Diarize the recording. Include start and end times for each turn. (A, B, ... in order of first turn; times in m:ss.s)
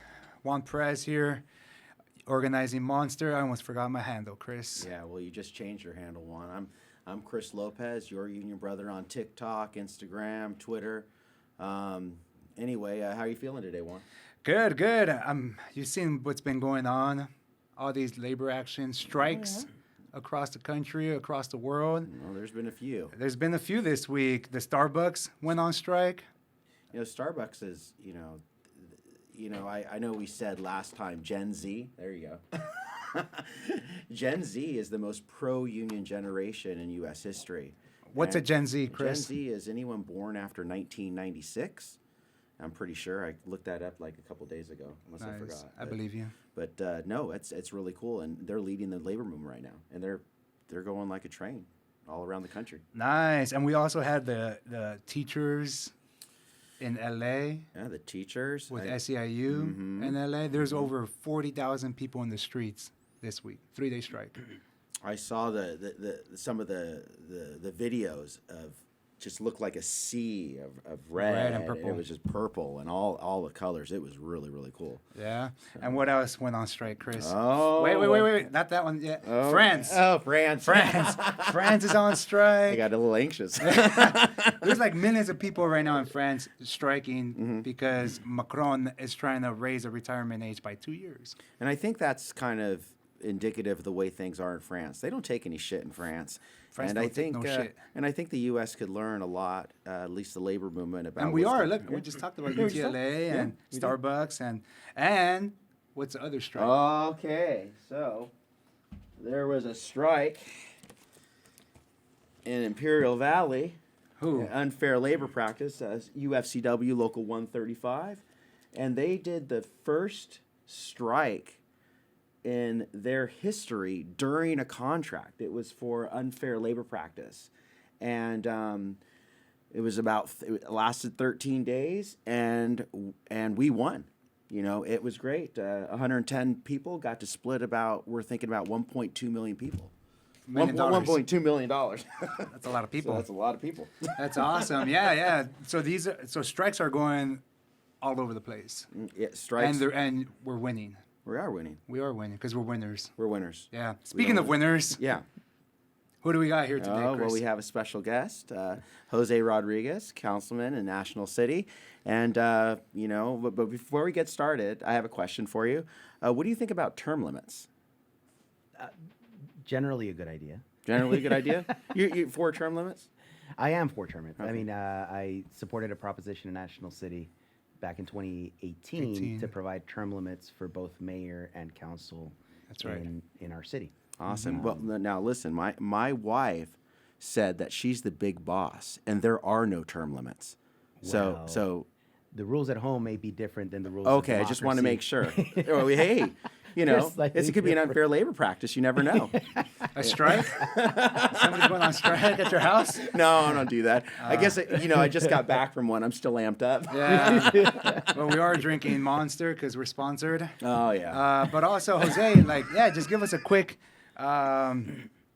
0:00.4-0:01.4 A
0:02.2-0:04.9 A
0:04.8-0:14.0 B
0:14.4-0:22.1 A
0:19.2-0:19.7 B
0:22.0-0:23.1 B
0:23.1-0:26.2 A
0:26.9-0:42.0 B
0:38.1-0:39.3 A
0:42.6-0:46.0 B
0:45.2-0:46.4 A
0:46.5-0:52.8 B
0:52.9-0:55.9 A
0:56.8-0:57.7 A
0:57.7-1:00.9 B
0:58.7-1:04.5 A
1:05.0-1:15.0 B
1:11.2-1:12.1 A
1:15.1-1:20.1 A
1:17.2-1:18.4 B
1:19.2-1:21.7 B
1:20.6-1:22.9 A
1:22.7-1:24.7 B
1:23.6-1:31.4 A
1:27.4-1:27.7 B
1:31.6-1:44.0 B
1:36.7-1:37.8 A
1:41.2-1:46.8 A
1:46.6-1:48.3 B
1:49.2-1:50.6 B
1:52.4-1:53.8 B
1:54.2-1:54.5 A
1:54.3-2:01.6 B
2:02.4-2:09.0 B
2:09.7-2:19.9 B
2:20.5-2:21.2 A
2:20.6-2:24.7 B
2:22.4-2:23.3 A
2:24.2-2:27.4 A
2:28.0-2:28.9 A
2:28.9-2:29.9 B
2:29.6-2:31.0 A
2:31.2-2:31.8 B
2:31.9-2:33.1 A
2:33.2-2:35.2 B
2:33.7-2:35.0 A
2:36.2-2:37.4 A
2:36.8-2:47.7 B
2:49.6-2:51.9 C
2:50.8-2:53.1 B
2:53.6-3:03.9 C
2:54.4-2:54.6 B
2:59.0-2:59.5 A
3:02.7-3:03.1 A
3:04.2-3:11.9 B
3:04.3-3:04.6 A
3:04.5-3:04.9 C
3:11.0-3:11.7 C
3:12.3-3:18.1 C
3:14.0-3:19.4 B
3:19.0-3:20.4 C
3:19.9-3:23.1 A
3:20.0-3:22.1 B
3:23.0-3:28.0 B
3:24.2-3:24.6 A
3:26.9-3:35.1 A
3:27.1-3:28.2 C
3:30.6-3:31.3 B